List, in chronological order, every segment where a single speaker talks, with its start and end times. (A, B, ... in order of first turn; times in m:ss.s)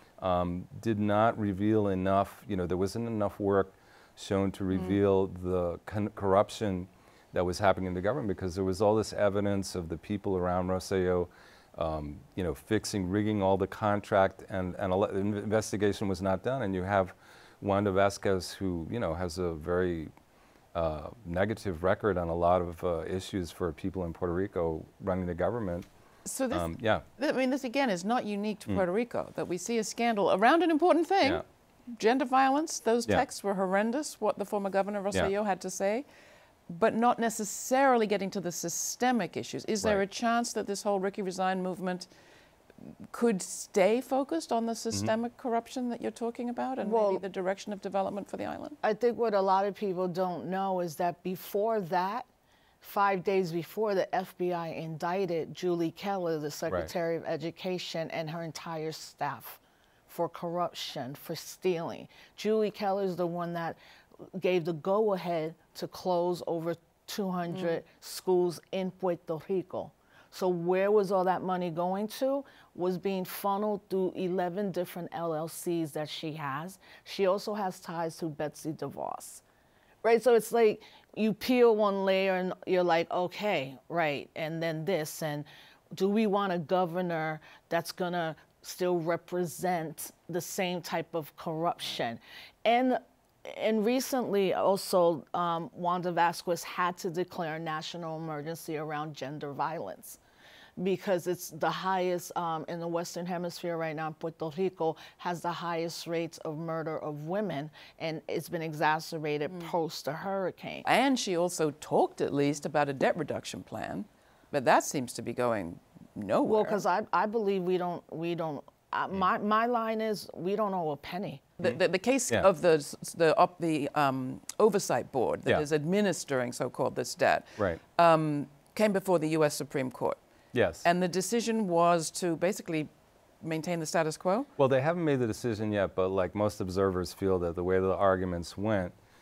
0:00.2-0:20.1 A
0:20.7-0:25.9 A
0:26.2-0:36.0 B
0:26.5-0:27.0 A
0:36.7-0:42.1 B
0:42.8-0:48.8 B
0:46.8-0:47.2 C
0:48.8-0:52.3 C
0:52.8-1:03.8 C
1:04.3-1:19.4 C
1:20.0-1:40.2 C
1:40.8-1:50.8 C
1:50.8-1:56.8 B
1:56.4-2:01.5 C
2:01.6-2:10.2 B
2:10.5-2:10.8 A
2:10.8-2:12.9 B
2:13.4-2:14.5 B
2:14.6-2:18.9 A